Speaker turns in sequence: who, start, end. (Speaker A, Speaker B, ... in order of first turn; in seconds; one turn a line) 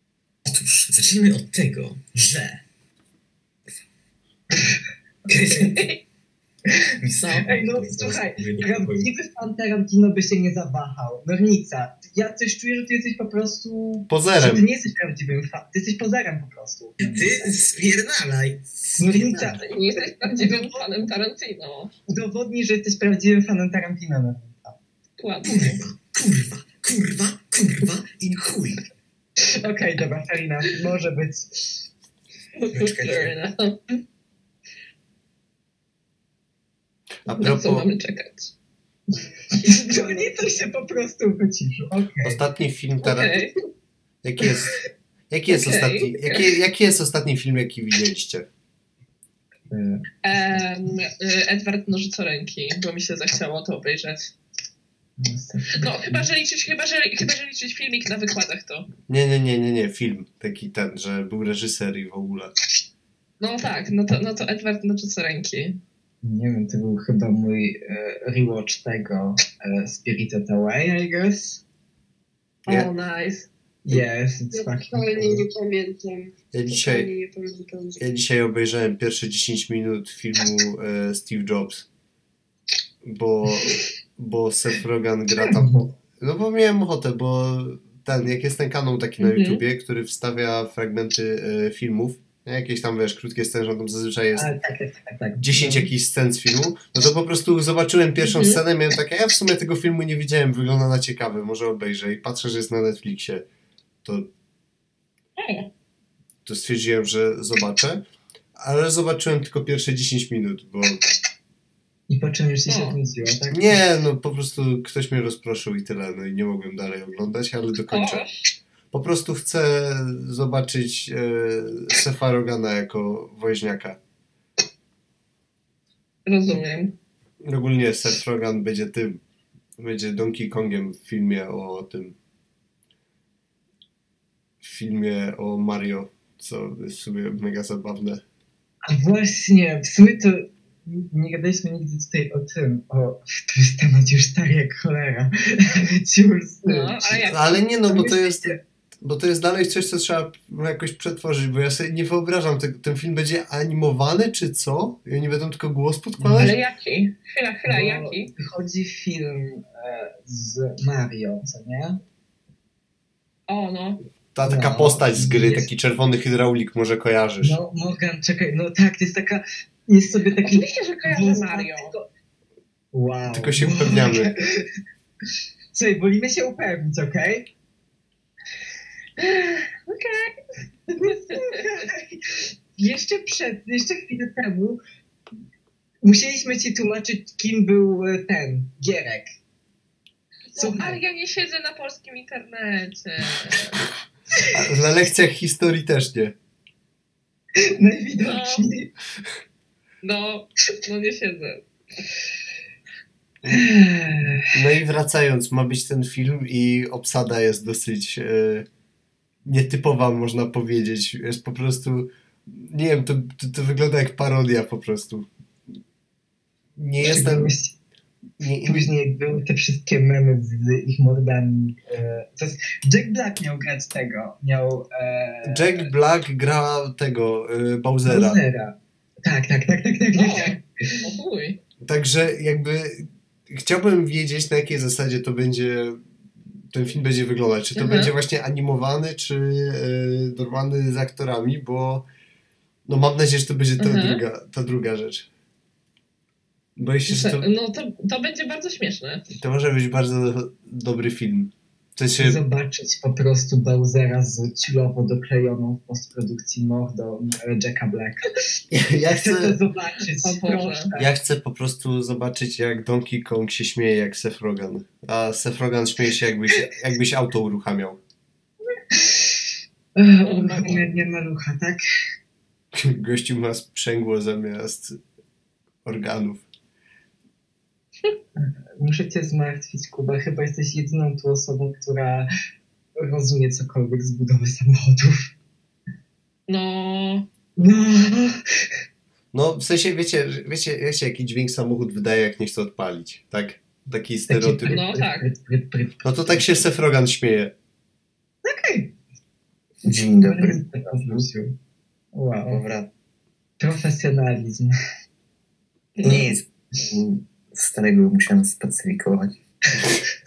Speaker A: 0.5-2.6
Speaker A: 5.2-6.0
Speaker A: 7.0-9.1
Speaker B: 7.3-17.5
Speaker C: 14.1-14.7
Speaker A: 17.0-19.6
Speaker B: 19.0-21.1
Speaker D: 19.6-21.9
Speaker B: 22.1-24.8
Speaker D: 25.2-25.8
Speaker A: 25.4-28.8
Speaker B: 29.4-31.9
Speaker D: 32.6-33.8
Speaker A: 32.7-33.3
Speaker C: 37.2-37.9
Speaker D: 37.3-38.5
Speaker B: 39.3-42.4
Speaker D: 39.6-40.5
Speaker C: 42.2-43.5
Speaker D: 43.0-43.5
Speaker C: 44.2-48.5
Speaker D: 45.5-46.5
Speaker B: 49.7-50.0
Speaker D: 50.2-54.3
Speaker B: 55.2-56.3
Speaker D: 55.8-58.9
Speaker C: 59.1-62.5
Speaker D: 63.4-65.8
Speaker B: 66.2-71.6
Speaker D: 72.6-73.5
Speaker B: 73.8-75.5
Speaker E: 74.5-78.0
Speaker C: 76.5-77.1
Speaker C: 78.0-81.8
Speaker C: 83.0-85.7
Speaker B: 85.5-85.9
Speaker C: 86.2-94.5
Speaker D: 89.2-89.6
Speaker B: 94.3-95.9
Speaker C: 95.4-103.5
Speaker D: 98.2-98.6
Speaker C: 104.0-104.3
Speaker D: 105.4-105.7
Speaker C: 106.4-108.0
Speaker C: 108.5-111.0
Speaker B: 112.1-113.8
Speaker D: 112.7-113.0
Speaker C: 113.5-118.2
Speaker D: 117.9-118.3
Speaker C: 118.9-124.0
Speaker D: 126.2-126.9
Speaker C: 127.4-129.2
Speaker C: 129.8-132.1
Speaker C: 134.6-138.2
Speaker B: 138.8-147.2
Speaker D: 146.7-147.7
Speaker C: 147.2-156.6
Speaker B: 147.9-148.5
Speaker B: 156.2-156.5
Speaker D: 156.3-158.3
Speaker B: 157.7-162.0
Speaker D: 163.5-164.0
Speaker C: 164.3-167.6
Speaker B: 164.4-165.7
Speaker B: 167.4-172.1
Speaker D: 170.2-171.9
Speaker B: 172.9-174.7
Speaker C: 173.3-174.3
Speaker B: 175.7-177.5
Speaker D: 179.2-180.3
Speaker B: 180.9-184.8
Speaker B: 186.0-189.3
Speaker D: 190.5-193.8
Speaker B: 190.6-191.0
Speaker C: 194.5-196.3
Speaker B: 197.6-198.9
Speaker D: 198.2-198.7
Speaker D: 200.0-201.6
Speaker B: 203.5-204.5
Speaker C: 204.5-208.7
Speaker C: 209.4-215.3
Speaker C: 216.8-217.5
Speaker B: 217.0-217.8
Speaker C: 218.4-218.9
Speaker B: 218.6-225.9
Speaker C: 225.4-228.4
Speaker B: 228.1-231.0
Speaker D: 230.1-231.6
Speaker C: 231.8-236.0
Speaker C: 236.7-242.1
Speaker D: 237.8-238.1
Speaker C: 242.8-245.3
Speaker D: 243.8-244.2
Speaker C: 246.8-247.5
Speaker D: 247.1-249.3
Speaker C: 249.3-252.4
Speaker B: 252.2-258.4
Speaker C: 258.7-259.6
Speaker B: 259.1-261.1
Speaker D: 260.2-260.9
Speaker C: 261.0-268.0
Speaker B: 268.9-269.4
Speaker B: 269.9-271.8
Speaker D: 270.2-270.9
Speaker C: 272.7-275.0
Speaker C: 275.8-276.4
Speaker B: 278.4-282.3
Speaker B: 282.9-285.3
Speaker D: 286.5-287.3
Speaker B: 287.6-288.4
Speaker C: 289.3-294.8
Speaker B: 294.3-296.5
Speaker D: 294.7-295.3
Speaker C: 296.0-297.5
Speaker B: 298.4-298.9
Speaker A: 299.8-300.6
Speaker B: 300.2-301.5
Speaker B: 302.1-302.6
Speaker A: 302.5-302.9
Speaker B: 303.6-304.7
Speaker D: 306.0-306.3
Speaker A: 306.0-309.4